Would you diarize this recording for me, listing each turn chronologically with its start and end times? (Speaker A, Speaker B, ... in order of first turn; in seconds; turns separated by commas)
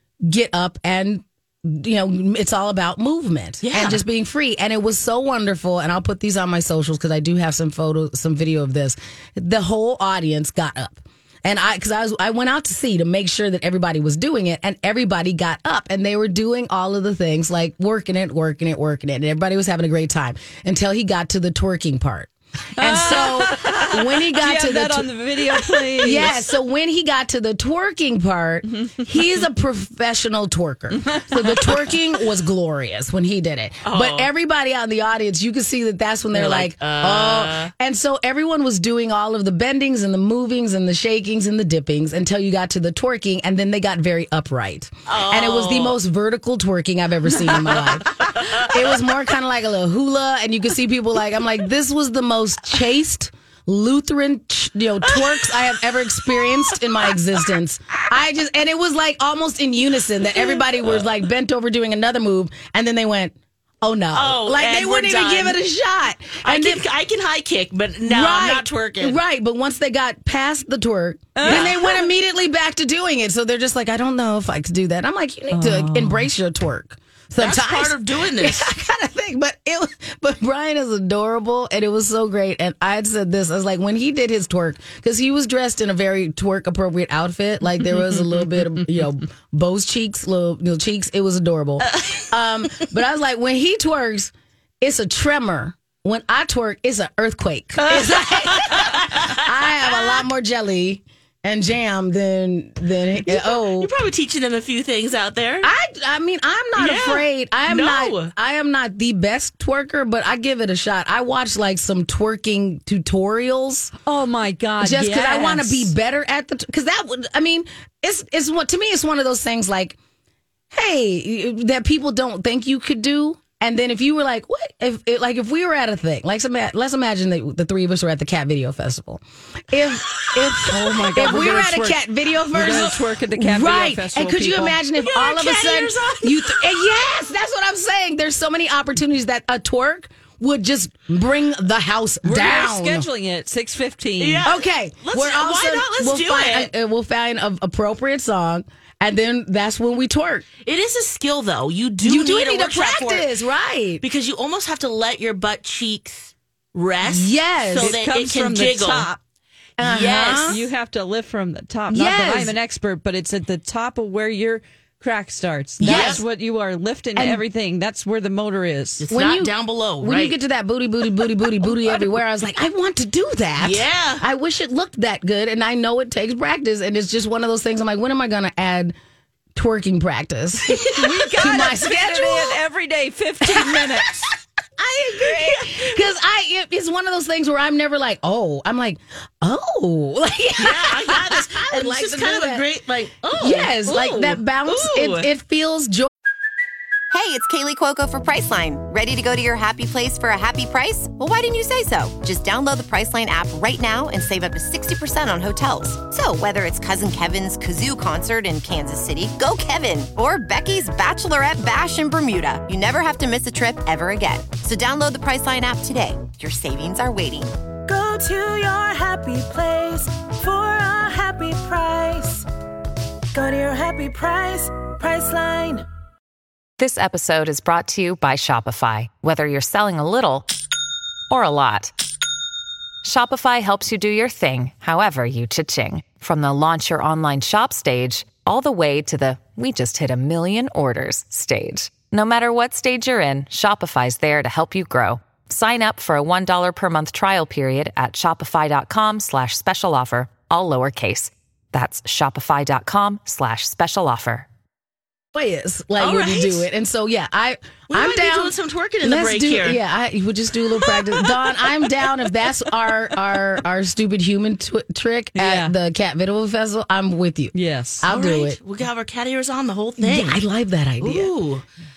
Speaker A: 0.3-25.1, Speaker B: 3.6-4.0, Speaker C: 22.8-26.3, Speaker A: 26.0-66.8, Speaker C: 31.0-31.8, Speaker B: 33.8-34.3, Speaker B: 36.3-37.7, Speaker B: 45.1-46.0, Speaker B: 47.6-49.0, Speaker B: 55.1-55.5, Speaker B: 56.3-57.1, Speaker B: 64.1-65.6, Speaker B: 66.4-69.2, Speaker A: 68.0-103.9, Speaker C: 71.4-71.7, Speaker B: 71.4-72.0, Speaker C: 75.5-76.3, Speaker B: 77.4-78.7, Speaker B: 91.9-92.2, Speaker B: 97.8-100.2, Speaker B: 103.2-105.7, Speaker A: 105.6-113.9, Speaker B: 106.8-108.3, Speaker C: 114.0-115.9, Speaker A: 114.8-120.0, Speaker A: 120.7-143.1, Speaker C: 130.7-134.8, Speaker B: 135.0-136.9, Speaker C: 142.2-144.5, Speaker B: 144.2-146.7, Speaker A: 144.4-150.4, Speaker B: 150.6-153.3, Speaker A: 152.0-154.0, Speaker B: 154.0-159.1, Speaker A: 157.0-158.0, Speaker C: 157.7-159.2, Speaker B: 159.8-160.6, Speaker A: 159.8-160.6, Speaker C: 160.5-169.1, Speaker A: 161.9-162.6, Speaker A: 165.8-166.2, Speaker B: 165.8-166.2, Speaker A: 167.2-167.4, Speaker B: 169.0-170.3, Speaker A: 169.1-179.0, Speaker B: 173.6-174.2, Speaker A: 179.6-182.6, Speaker C: 180.8-184.2, Speaker A: 183.4-183.9, Speaker A: 184.8-192.6, Speaker B: 185.4-185.8, Speaker B: 190.6-195.3, Speaker A: 193.3-196.1, Speaker D: 197.1-217.5, Speaker E: 217.9-222.4, Speaker E: 223.3-225.8, Speaker F: 226.8-230.5, Speaker F: 231.3-231.9, Speaker F: 233.0-254.5, Speaker A: 255.3-268.6, Speaker B: 256.0-256.7, Speaker B: 257.9-259.8, Speaker C: 265.4-265.8, Speaker C: 267.5-268.1, Speaker B: 268.1-270.4, Speaker A: 270.0-271.3, Speaker B: 271.0-271.6